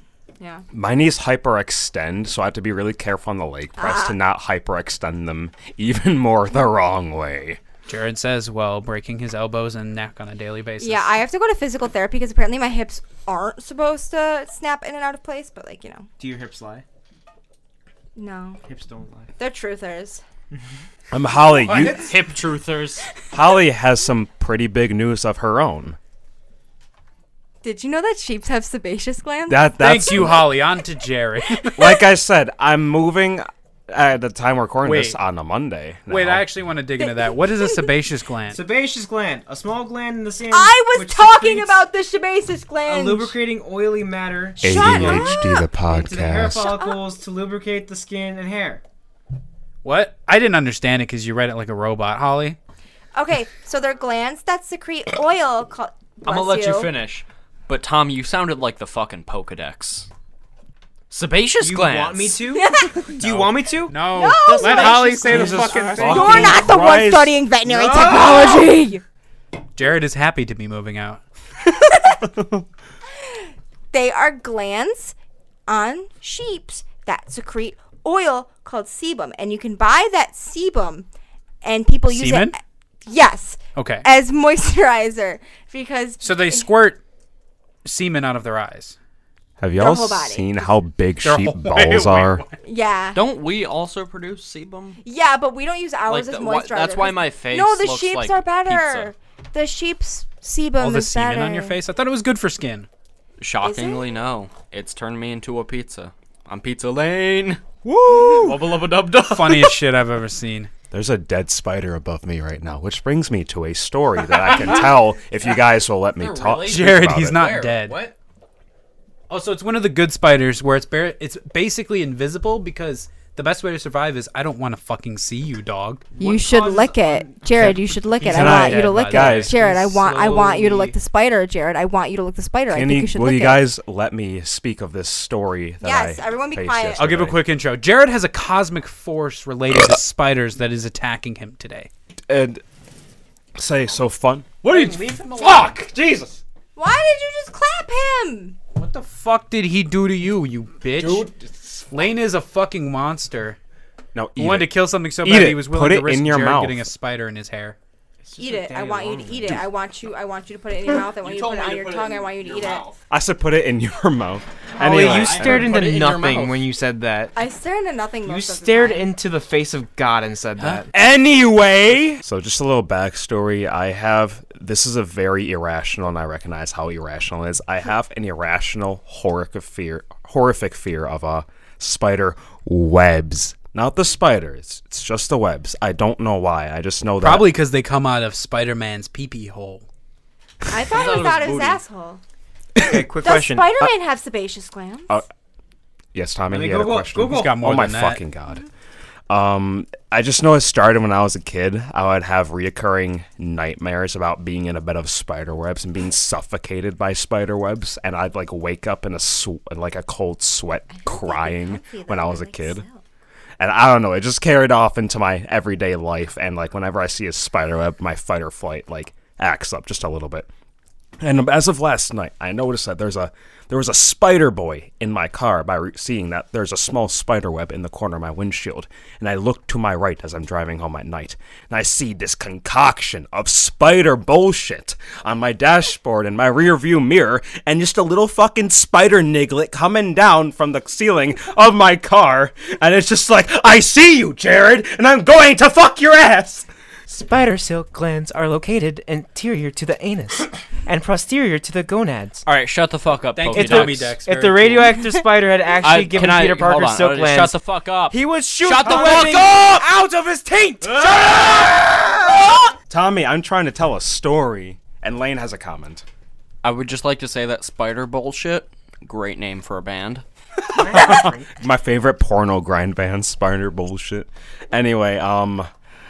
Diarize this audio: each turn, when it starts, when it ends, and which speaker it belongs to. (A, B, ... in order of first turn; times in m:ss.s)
0:00.4-0:00.6 A
0:00.7-0:07.6 B
0:03.8-0:04.2 A
0:07.9-0:11.2 C
0:10.8-0:16.1 A
0:16.2-0:16.8 D
0:18.2-0:18.6 A
0:18.6-0:19.3 D
0:19.4-0:20.2 A
0:21.1-0:22.1 B
0:21.6-0:22.1 C
0:21.8-0:23.1 E
0:23.3-0:26.0 B
0:27.6-0:30.4 A
0:29.5-0:30.5 B
0:29.8-0:32.0 C
0:31.8-0:36.5 B
0:34.8-0:35.2 C
0:36.1-0:38.6 C
0:37.0-0:38.0 A
0:38.5-0:41.8 D
0:40.5-0:43.3 A
0:42.8-0:48.8 D
0:44.6-0:45.7 A
0:44.6-0:46.7 B
0:46.6-0:47.0 A
0:49.8-0:52.6 C
0:53.2-0:56.9 A
0:56.2-1:00.1 E
1:01.1-1:02.4 E
1:01.6-1:04.0 D
1:02.5-1:03.1 A
1:03.2-1:07.1 C
1:04.1-1:09.0 A
1:04.6-1:05.1 D
1:05.2-1:08.3 B
1:07.9-1:08.2 C
1:09.8-1:11.2 C
1:13.3-1:15.2 A
1:15.7-1:21.1 A
1:21.6-1:26.7 A
1:22.1-1:22.6 C
1:23.8-1:24.1 C
1:26.2-1:27.0 C
1:27.8-1:29.0 C
1:29.6-1:32.4 B
1:29.8-1:30.7 A
1:31.2-1:32.6 C
1:32.6-1:33.2 A
1:33.1-1:35.0 E
1:35.0-1:41.8 A
1:36.1-1:39.1 E
1:40.8-1:42.9 C
1:43.4-1:47.6 E
1:43.6-1:44.2 A
1:47.8-1:48.6 D
1:48.3-1:49.8 E
1:48.5-1:50.7 C
1:50.9-1:57.6 B
1:54.3-1:54.9 C
1:56.2-1:58.1 E
1:56.6-1:58.1 C
1:59.3-2:06.1 C
2:06.1-2:07.8 D
2:06.2-2:13.6 A
2:08.2-2:11.0 C
2:08.3-2:09.5 B
2:12.7-2:17.4 B
2:15.8-2:17.1 A
2:17.0-2:21.9 C
2:22.3-2:22.6 B
2:23.6-2:24.5 B
2:24.6-2:25.9 C
2:24.6-2:26.3 D
2:26.8-2:28.6 A
2:28.8-2:31.3 C
2:31.0-2:31.7 D
2:31.9-2:33.6 C
2:34.2-2:36.9 B
2:34.4-2:37.8 C
2:38.2-2:39.7 D
2:38.4-2:42.9 A
2:41.2-2:43.0 E
2:43.1-2:45.8 B
2:44.8-2:47.4 D
2:44.9-2:45.4 C
2:45.0-2:46.7 E
2:47.4-2:49.1 A
2:48.2-2:50.9 D
2:50.9-3:07.5 B
3:07.2-3:09.8 C
3:10.7-3:12.2 A
3:10.9-3:11.8 E
3:12.8-3:13.7 D
3:13.2-3:15.2 A
3:16.1-3:18.6 B
3:16.5-3:17.6 D
3:17.2-3:18.2 C
3:19.3-3:32.8 B
3:30.9-3:33.0 A
3:33.6-3:40.5 B
3:41.2-4:06.7 B
4:07.1-4:12.4 D
4:12.4-4:14.2 E
4:13.4-4:15.0 C
4:13.6-4:17.6 D
4:15.8-4:19.8 E
4:18.1-4:22.7 D
4:18.9-4:19.3 C
4:22.9-4:26.0 B
4:26.6-4:30.2 E
4:30.7-4:31.6 D
4:30.8-4:35.7 B